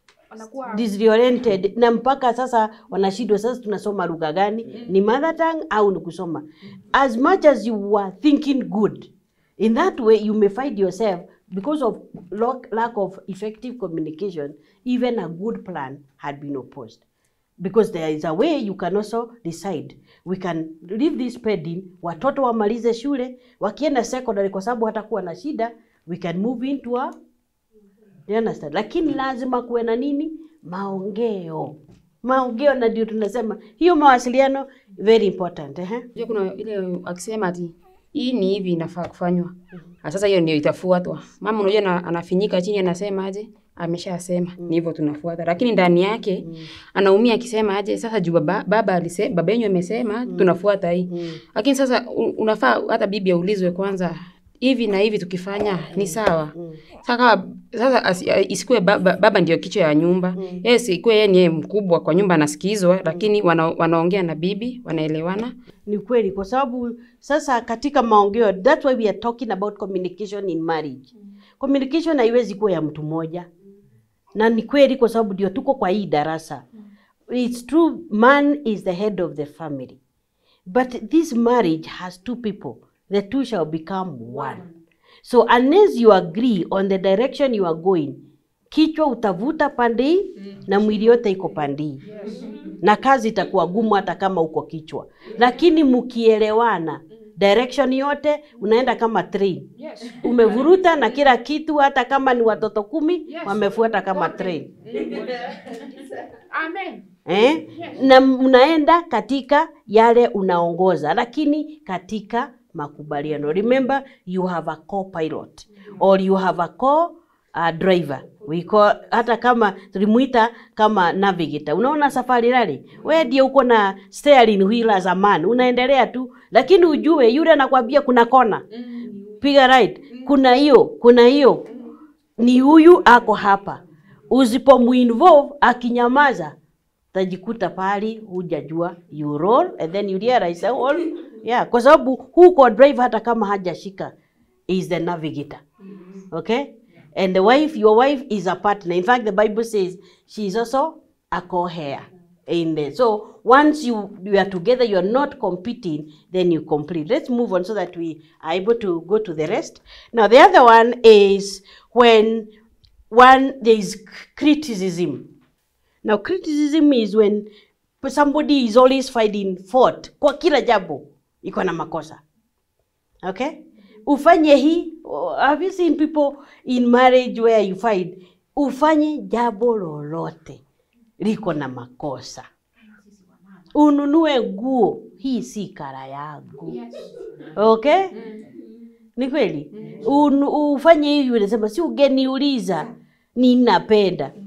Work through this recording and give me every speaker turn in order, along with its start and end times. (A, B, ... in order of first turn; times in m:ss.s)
0:00.3-0:00.9 A
0:00.7-0:17.0 B
0:04.7-0:05.0 A
0:17.6-0:27.1 B
0:28.3-0:36.1 B
0:36.1-1:05.5 C
0:46.4-0:46.7 B
0:50.3-0:50.5 B
0:51.1-0:51.4 B
0:55.9-0:56.8 B
1:00.3-1:00.6 B
1:05.9-1:11.0 B
1:11.6-1:13.5 B
1:14.4-1:16.6 B
1:17.3-1:20.0 B
1:20.7-1:24.6 B
1:24.3-1:24.7 A
1:25.2-1:32.0 B
1:32.0-1:32.7 A
1:32.8-1:44.7 B
1:35.4-1:35.7 A
1:39.8-1:40.7 A
1:43.2-1:47.0 A
1:47.2-2:08.6 B
1:47.7-1:48.0 A
2:08.7-2:09.4 A
2:09.4-2:11.6 B
2:10.1-2:10.3 A
2:12.4-2:16.5 B
2:17.1-2:24.1 B
2:24.7-2:25.6 B
2:26.3-2:42.5 B
2:43.1-2:45.3 B
2:46.0-2:47.5 B
2:48.0-2:52.2 B
2:53.2-3:00.6 B
3:01.2-3:02.4 B
3:02.8-3:03.7 A
3:03.7-3:06.8 B
3:06.7-3:07.1 A
3:07.5-3:08.1 B
3:08.1-3:08.6 A
3:09.2-3:14.3 B
3:09.7-3:10.0 A